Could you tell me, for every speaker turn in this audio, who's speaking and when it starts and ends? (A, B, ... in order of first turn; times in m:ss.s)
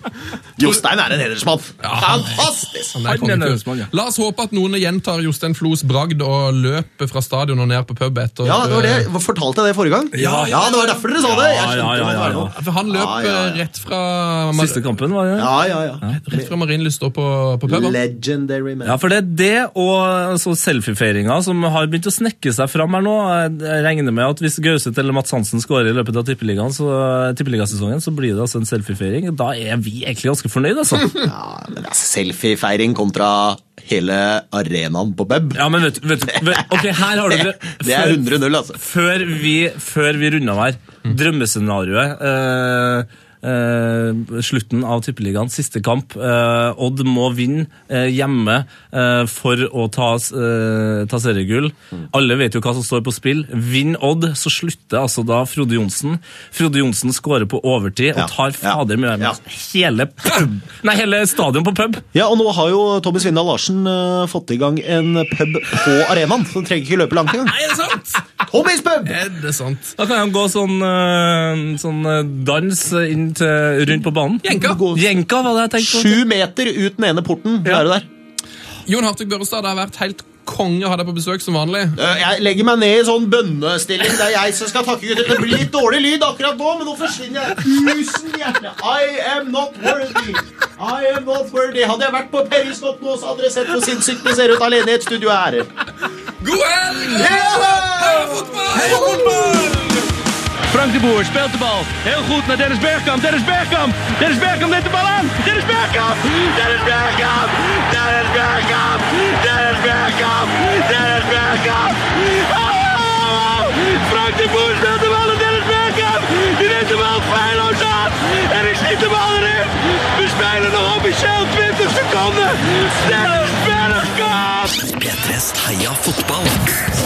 0:00.6-0:03.0 A
0:01.8-0:09.1 B
0:03.0-0:03.9 C
0:08.4-0:13.6 A
0:10.2-0:12.5 C
0:10.2-0:10.7 B
0:12.5-0:14.8 B
0:14.6-0:15.5 C
0:15.4-0:16.5 A
0:16.1-0:18.0 B
0:17.7-0:19.0 A
0:18.9-0:31.2 C
0:31.1-0:35.7 A
0:35.6-1:02.0 C
0:36.3-0:38.8 A
0:58.2-0:59.4 A
1:02.1-1:07.6 A
1:07.5-1:08.2 C
1:08.5-1:09.2 A
1:09.1-1:10.0 B
1:10.0-1:16.2 C
1:14.4-1:14.9 B
1:14.5-1:15.1 A
1:15.8-1:18.1 A
1:18.9-1:22.0 B
1:22.0-1:35.7 A
1:36.4-1:39.6 B
1:37.1-1:39.7 A
1:38.9-1:39.7 D
1:40.7-2:04.8 D
2:04.8-2:06.8 E